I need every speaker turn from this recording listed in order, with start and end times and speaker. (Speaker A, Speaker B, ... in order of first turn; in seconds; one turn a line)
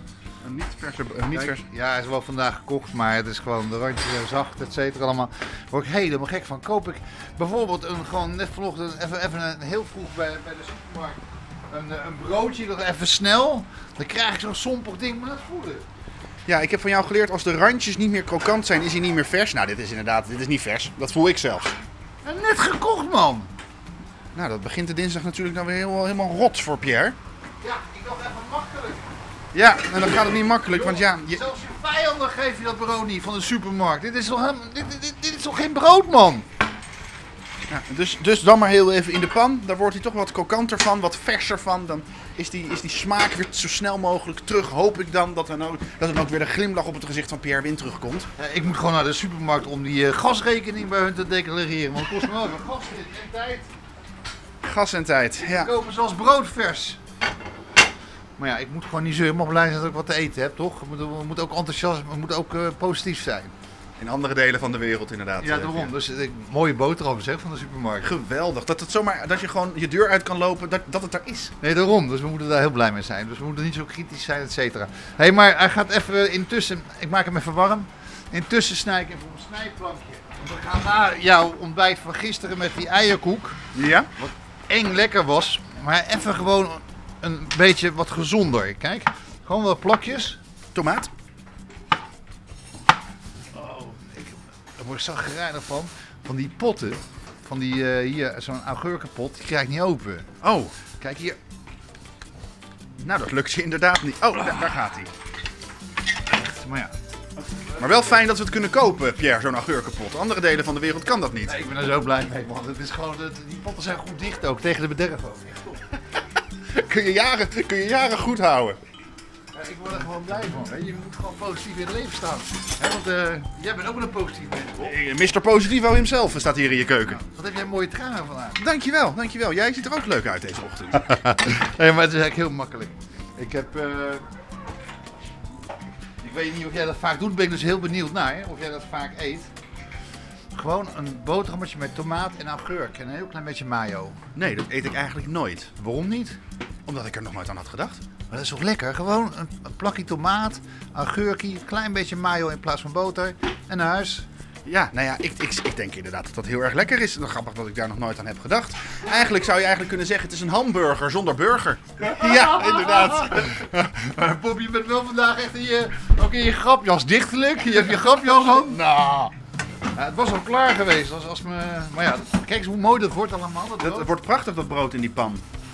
Speaker A: 0.4-1.6
Speaker B: 1.3-15.8
Speaker A: 16.4-21.8
Speaker B: 22.2-23.5
Speaker A: 24.3-27.2
Speaker B: 27.6-29.1
Speaker A: 29.5-31.4
Speaker B: 30.6-36.5
Speaker A: 37.7-48.3
Speaker B: 48.4-53.7
Speaker A: 54.6-55.7
Speaker B: 55.4-57.0
Speaker B: 58.4-63.5
Speaker A: 64.0-66.0
Speaker B: 65.4-68.1
Speaker A: 68.0-71.5
Speaker B: 71.6-83.6
Speaker A: 83.7-84.1
Speaker B: 84.2-90.4
Speaker A: 90.7-91.1
Speaker B: 93.5-100.3
Speaker A: 100.4-100.7
Speaker B: 101.0-101.4
Speaker A: 103.0-105.1
Speaker B: 106.3-106.9
Speaker A: 107.8-111.6
Speaker B: 111.5-115.8
Speaker A: 116.7-118.8
Speaker B: 119.5-125.0
Speaker A: 124.8-127.2
Speaker B: 127.1-128.6
Speaker A: 128.6-131.2
Speaker B: 131.0-134.2
Speaker B: 136.2-139.5
Speaker B: 140.5-144.2
Speaker A: 144.3-145.7
Speaker B: 145.8-146.4
Speaker A: 146.8-148.0
Speaker B: 148.3-154.2
Speaker A: 154.6-163.7
Speaker B: 162.0-169.1
Speaker A: 168.8-169.3
Speaker B: 169.9-174.1
Speaker A: 173.8-175.4